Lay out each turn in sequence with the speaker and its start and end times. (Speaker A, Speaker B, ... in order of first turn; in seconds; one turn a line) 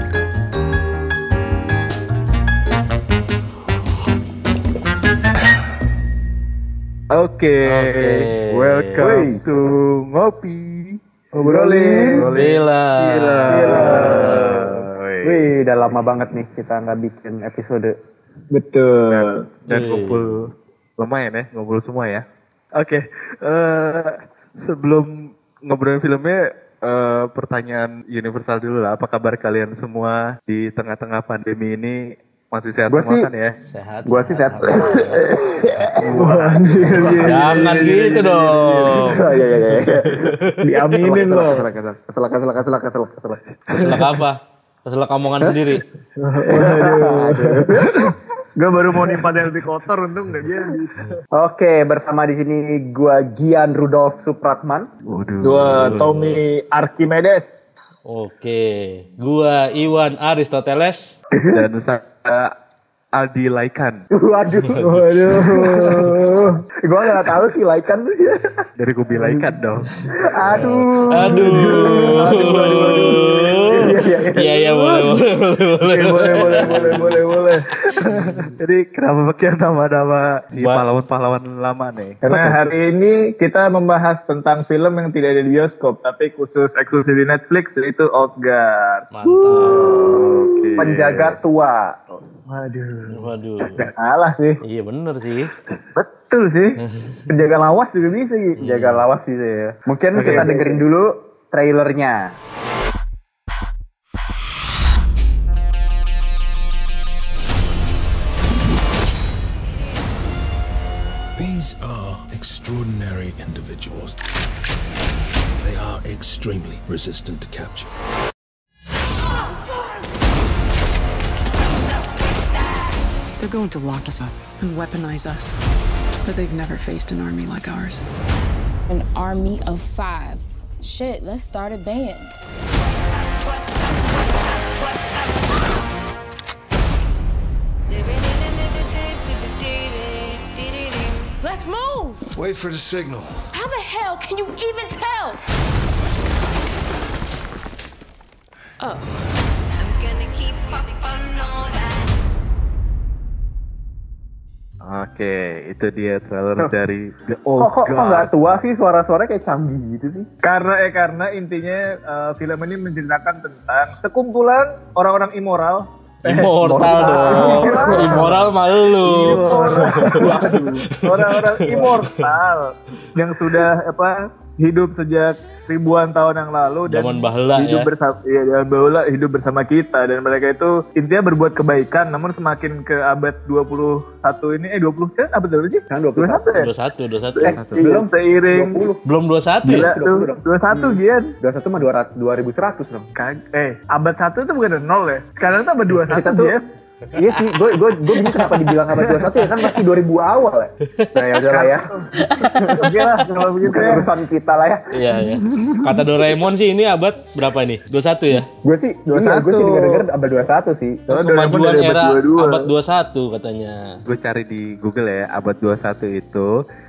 Speaker A: 7.1-11.0
Speaker B: 7.7-9.1
Speaker C: 9.0-9.4
Speaker D: 11.3-12.3
Speaker C: 11.4-12.5
Speaker A: 12.1-15.5
Speaker B: 12.3-14.7
Speaker C: 13.5-14.7
Speaker D: 13.7-14.0
Speaker C: 15.2-17.9
Speaker D: 18.5-19.4
Speaker A: 19.1-33.5
Speaker B: 19.7-20.3
Speaker C: 32.9-33.3
Speaker B: 33.7-35.3
Speaker C: 34.1-37.5
Speaker D: 36.1-39.4
Speaker A: 36.8-37.3
Speaker B: 36.9-40.6
Speaker C: 38.9-40.3
Speaker D: 40.6-41.6
Speaker C: 41.0-43.4
Speaker B: 43.7-45.8
Speaker D: 46.2-51.2
Speaker C: 46.5-48.2
Speaker C: 51.4-54.9
Speaker A: 55.1-56.1
Speaker D: 55.4-57.5
Speaker B: 55.6-56.4
Speaker B: 58.1-61.1
Speaker C: 61.4-61.6
Speaker A: 61.5-62.5
Speaker A: 63.2-64.0
Speaker C: 64.1-66.0
Speaker D: 64.8-66.6
Speaker C: 66.9-68.7
Speaker A: 68.8-69.9
Speaker C: 69.2-69.5
Speaker C: 70.2-73.1
Speaker B: 70.5-77.2
Speaker D: 71.2-75.2
Speaker C: 73.7-74.6
Speaker D: 75.8-77.7
Speaker A: 77.7-82.2
Speaker B: 80.6-80.8
Speaker D: 82.2-90.9
Speaker C: 82.3-82.6
Speaker B: 89.1-90.1
Speaker A: 89.6-91.4
Speaker C: 90.8-92.2
Speaker D: 92.5-93.3
Speaker B: 93.1-93.9
Speaker D: 93.9-94.6
Speaker B: 94.6-95.5
Speaker D: 96.0-98.6
Speaker B: 96.8-97.2
Speaker B: 98.6-99.1
Speaker C: 98.6-102.4
Speaker A: 100.2-100.6
Speaker D: 100.2-100.8
Speaker E: 111.4-114.2
Speaker E: 115.6-117.9
Speaker F: 123.4-125.5
Speaker F: 126.2-128.0
Speaker G: 128.9-132.3
Speaker G: 133.4-135.8
Speaker G: 137.9-142.3
Speaker E: 142.3-143.5
Speaker G: 143.5-145.4
Speaker G: 148.8-149.2
Speaker G: 149.8-152.1
Speaker A: 154.8-158.6
Speaker C: 157.6-160.3
Speaker D: 160.4-168.4
Speaker B: 166.2-170.6
Speaker C: 166.6-168.4
Speaker A: 167.7-168.2
Speaker A: 169.0-169.9
Speaker C: 169.3-170.8
Speaker D: 169.4-186.7
Speaker B: 171.1-172.2
Speaker B: 176.9-177.9
Speaker C: 185.9-186.4
Speaker B: 186.6-187.8
Speaker D: 187.3-188.8
Speaker C: 187.4-189.0
Speaker B: 189.1-189.9
Speaker D: 189.6-191.3
Speaker C: 189.7-193.1
Speaker D: 193.2-196.6
Speaker C: 196.1-196.6
Speaker C: 197.1-202.9
Speaker D: 201.5-204.1
Speaker B: 202.2-202.5
Speaker C: 203.7-206.1
Speaker B: 204.9-208.5
Speaker C: 208.6-211.0
Speaker D: 209.1-210.1
Speaker D: 211.1-212.7
Speaker B: 211.1-213.8
Speaker A: 214.1-216.5